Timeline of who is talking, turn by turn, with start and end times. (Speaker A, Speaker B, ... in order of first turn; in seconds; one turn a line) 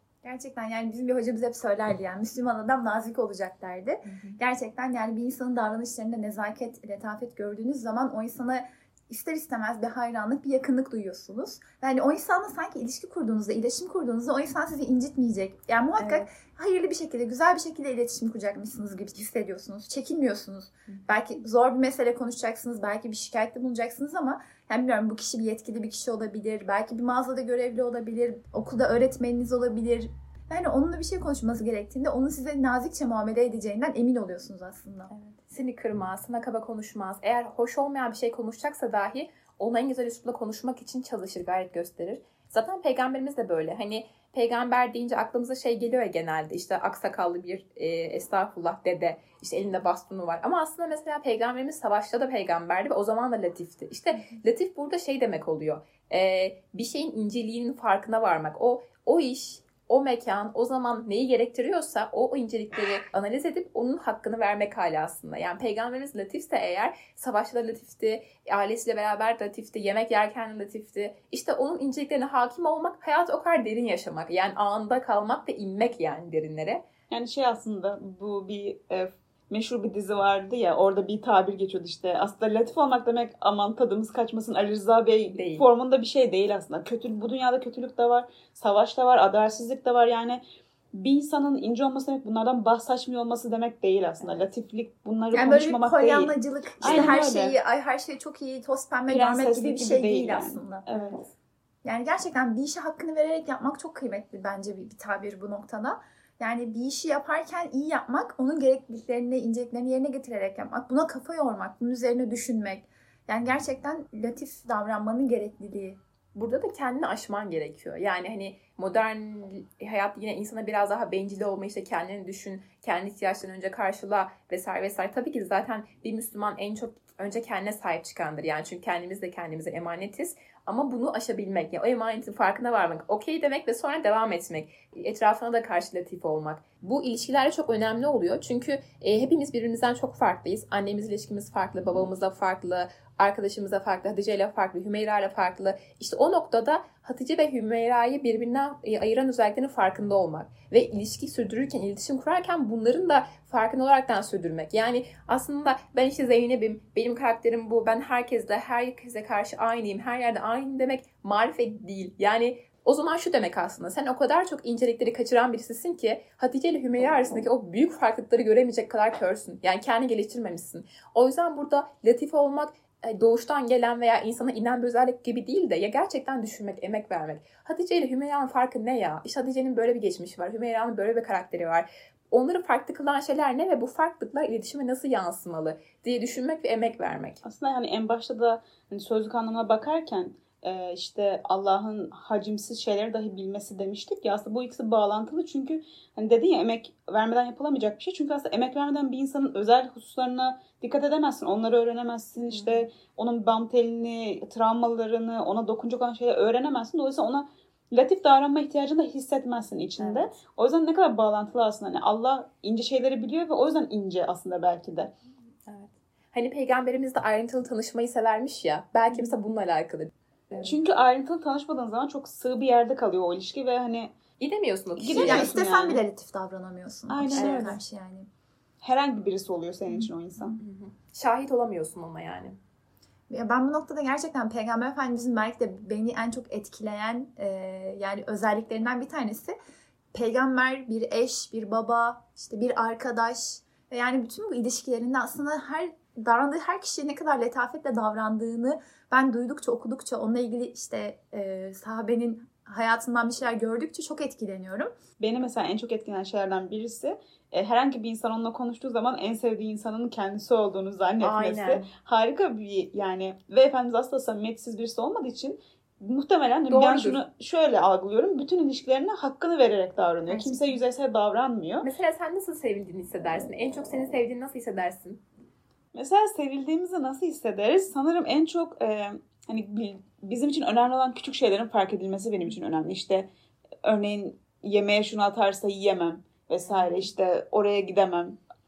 Speaker A: 0.2-35.1
Speaker B: 4.0-4.4
Speaker B: 16.0-16.2
Speaker B: 35.1-76.8
Speaker C: 77.1-90.4
Speaker B: 85.3-85.7
Speaker C: 90.9-97.6
Speaker A: 95.3-100.8
Speaker B: 96.8-97.1
Speaker C: 99.1-101.2
Speaker A: 101.8-116.0
Speaker B: 116.3-187.4
Speaker C: 187.4-215.1
Speaker B: 202.5-202.8
Speaker B: 210.0-210.3
Speaker B: 215.7-220.8
Speaker C: 220.6-224.1
Speaker B: 224.4-225.5
Speaker C: 225.0-226.0
Speaker A: 225.1-228.3
Speaker C: 227.1-227.8
Speaker B: 227.3-227.8
Speaker C: 228.8-230.6
Speaker B: 230.6-232.6
Speaker A: 233.3-239.5
Speaker A: 240.1-254.9
Speaker C: 255.2-271.9
Speaker B: 261.2-261.8
Speaker B: 266.7-267.2
Speaker A: 270.3-270.8
Speaker B: 271.8-275.2
Speaker C: 275.9-283.3
Speaker C: 283.8-288.4
Speaker B: 286.6-287.1